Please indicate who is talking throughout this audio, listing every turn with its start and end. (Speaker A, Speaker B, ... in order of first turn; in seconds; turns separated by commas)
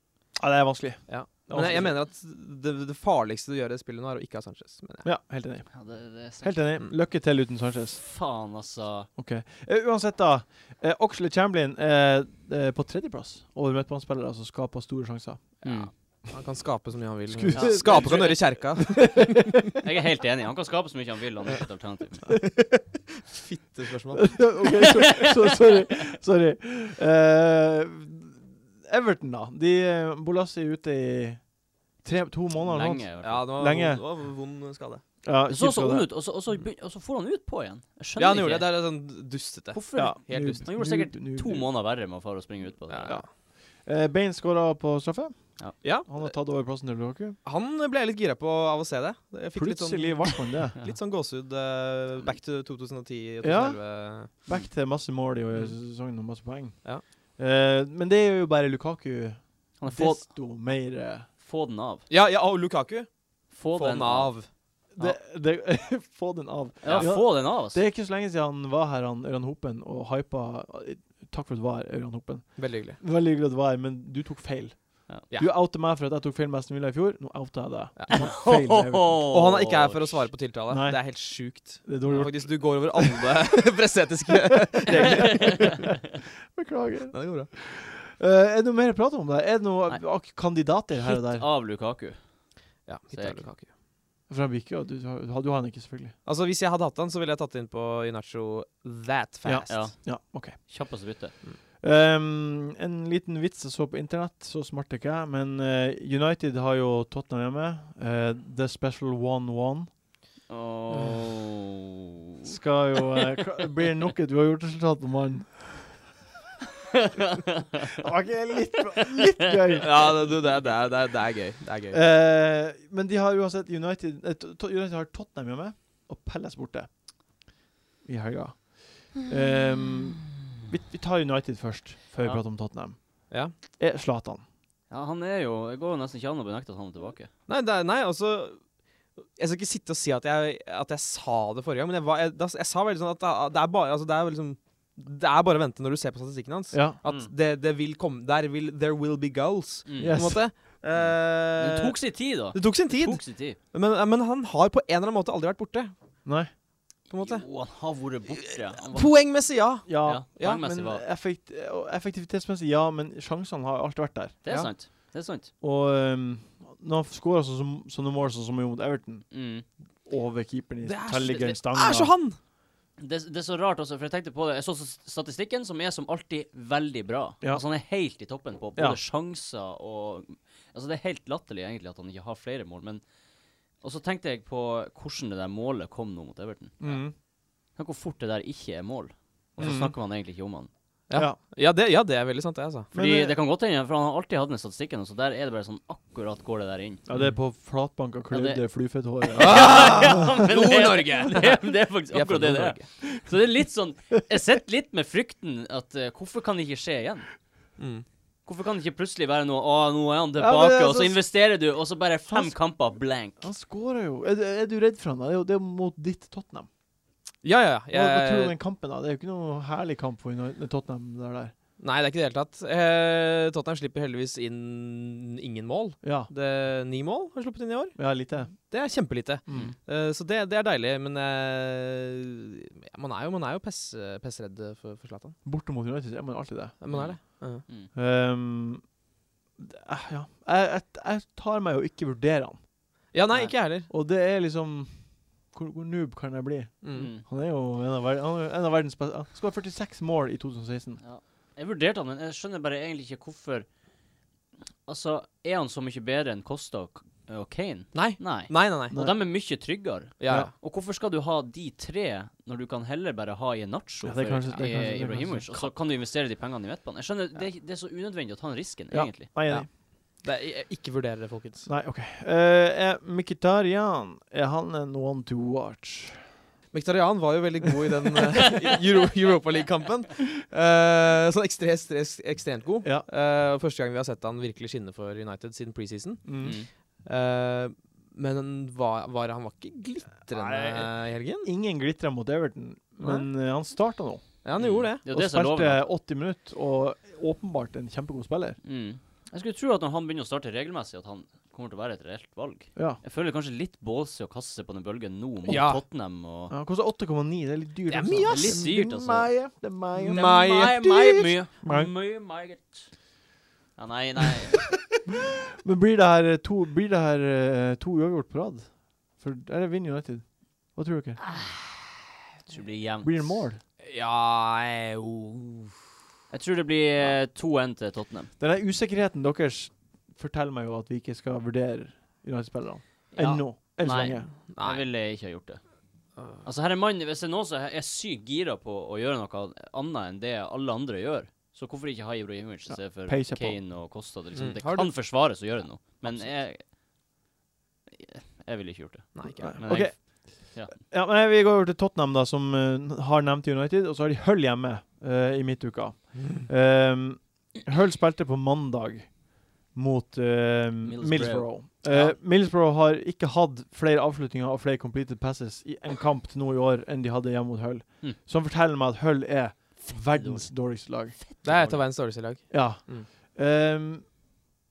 Speaker A: 0.4-2.0, Speaker B: 1.1-5.0, Speaker A: 5.0-5.7, Speaker C: 5.7-6.6, Speaker A: 6.4-8.0, Speaker C: 8.0-9.1, Speaker A: 9.2-15.6, Speaker C: 15.6-15.9, Speaker B: 15.6-19.6, Speaker A: 17.3-19.6, Speaker C: 17.5-18.4, Speaker C: 19.8-22.3, Speaker B: 22.3-24.5, Speaker A: 24.1-31.4, Speaker A: 32.0-34.0, Speaker C: 32.6-33.5, Speaker B: 33.2-35.0, Speaker A: 35.2-36.1, Speaker C: 35.5-38.7, Speaker B: 38.2-40.6, Speaker C: 39.7-43.2, Speaker A: 40.0-41.7, Speaker B: 42.9-43.2, Speaker A: 43.8-47.4, Speaker B: 45.8-46.2, Speaker B: 47.4-54.3, Speaker A: 49.5-50.8, Speaker A: 53.4-61.3, Speaker C: 59.8-60.3, Speaker C: 61.4-62.0, Speaker B: 62.1-63.1, Speaker C: 63.5-64.4, Speaker B: 63.7-64.5, Speaker A: 64.9-79.3, Speaker C: 66.8-67.8, Speaker B: 72.6-73.0, Speaker B: 78.0-78.2, Speaker C: 78.1-80.3, Speaker B: 79.3-85.9, Speaker A: 80.7-83.0, Speaker A: 84.8-85.9, Speaker A: 86.5-91.4, Speaker B: 87.1-87.5, Speaker C: 90.9-92.2, Speaker B: 92.9-93.7, Speaker C: 93.1-93.4, Speaker A: 94.3-96.1, Speaker B: 96.2-99.9, Speaker A: 99.4-100.6, Speaker C: 99.7-101.3, Speaker A: 101.8-109.9, Speaker C: 110.5-111.8, Speaker A: 112.4-116.0, Speaker C: 116.9-118.0, Speaker A: 118.0-120.3, Speaker B: 119.8-122.0, Speaker A: 121.9-126.9, Speaker A: 128.0-133.2, Speaker A: 133.8-134.4, Speaker C: 134.9-137.3, Speaker B: 137.5-138.6, Speaker B: 139.3-152.0, Speaker A: 146.7-147.0, Speaker C: 147.0-147.3, Speaker C: 149.9-150.2, Speaker A: 150.0-150.4, Speaker C: 150.9-153.6, Speaker B: 152.5-155.9, Speaker A: 156.2-156.5, Speaker B: 157.1-157.4, Speaker C: 157.1-159.1, Speaker B: 158.3-160.6, Speaker A: 159.9-164.4, Speaker C: 160.0-161.0, Speaker C: 164.4-165.5, Speaker A: 165.6-169.3, Speaker C: 169.3-169.6, Speaker A: 170.1-172.1, Speaker B: 170.8-172.4, Speaker C: 173.0-183.0, Speaker C: 183.8-187.0, Speaker A: 186.8-187.1, Speaker C: 187.8-190.7, Speaker A: 189.6-189.9, Speaker B: 191.1-192.9, Speaker A: 191.1-191.4, Speaker A: 192.9-193.4, Speaker C: 192.9-197.0, Speaker A: 197.1-200.2, Speaker C: 198.3-198.6, Speaker C: 199.2-207.3, Speaker B: 199.4-202.9, Speaker B: 207.8-208.0, Speaker C: 208.4-213.4, Speaker A: 210.4-211.2, Speaker A: 212.3-212.6, Speaker A: 213.4-216.7, Speaker B: 217.4-218.6, Speaker A: 217.9-221.5, Speaker B: 221.8-235.4, Speaker A: 226.0-226.3, Speaker A: 227.9-228.6, Speaker A: 229.5-229.7, Speaker A: 235.4-237.3, Speaker B: 236.8-237.7, Speaker C: 236.9-237.9, Speaker A: 237.9-238.9, Speaker A: 239.6-242.6, Speaker B: 243.1-243.9, Speaker A: 243.9-245.0, Speaker A: 245.5-251.0, Speaker B: 246.8-247.1, Speaker C: 246.9-247.2, Speaker C: 251.0-253.7, Speaker C: 254.8-269.3, Speaker B: 257.9-258.9, Speaker A: 258.9-259.2, Speaker B: 260.2-260.5, Speaker A: 264.0-265.5, Speaker B: 264.5-265.6, Speaker A: 268.9-269.7, Speaker B: 270.2-271.7, Speaker A: 271.6-276.2, Speaker B: 276.7-286.5, Speaker A: 286.2-286.6, Speaker C: 286.4-286.7, Speaker B: 287.0-291.5, Speaker A: 290.3-294.2, Speaker B: 293.0-293.3, Speaker B: 294.4-295.0, Speaker C: 294.6-295.9, Speaker A: 295.1-298.6, Speaker C: 298.6-306.5, Speaker B: 305.5-305.8, Speaker A: 306.5-310.3, Speaker B: 307.9-308.7, Speaker C: 308.3-309.3, Speaker B: 310.0-311.3, Speaker C: 310.1-312.9, Speaker A: 311.6-311.9, Speaker C: 313.8-314.6, Speaker A: 315.1-321.2, Speaker C: 321.2-321.9, Speaker C: 322.5-323.4, Speaker A: 323.0-323.6, Speaker B: 323.8-325.7, Speaker C: 326.3-328.3, Speaker A: 328.4-334.3, Speaker C: 333.1-335.6, Speaker B: 334.5-334.9, Speaker C: 336.4-346.6, Speaker A: 342.7-343.6, Speaker B: 344.4-345.5, Speaker C: 347.9-350.7, Speaker B: 349.1-349.6, Speaker A: 349.4-359.2, Speaker A: 359.7-371.2, Speaker C: 360.8-362.0, Speaker B: 361.9-362.1, Speaker C: 369.8-371.9, Speaker B: 371.4-373.1, Speaker A: 372.5-374.1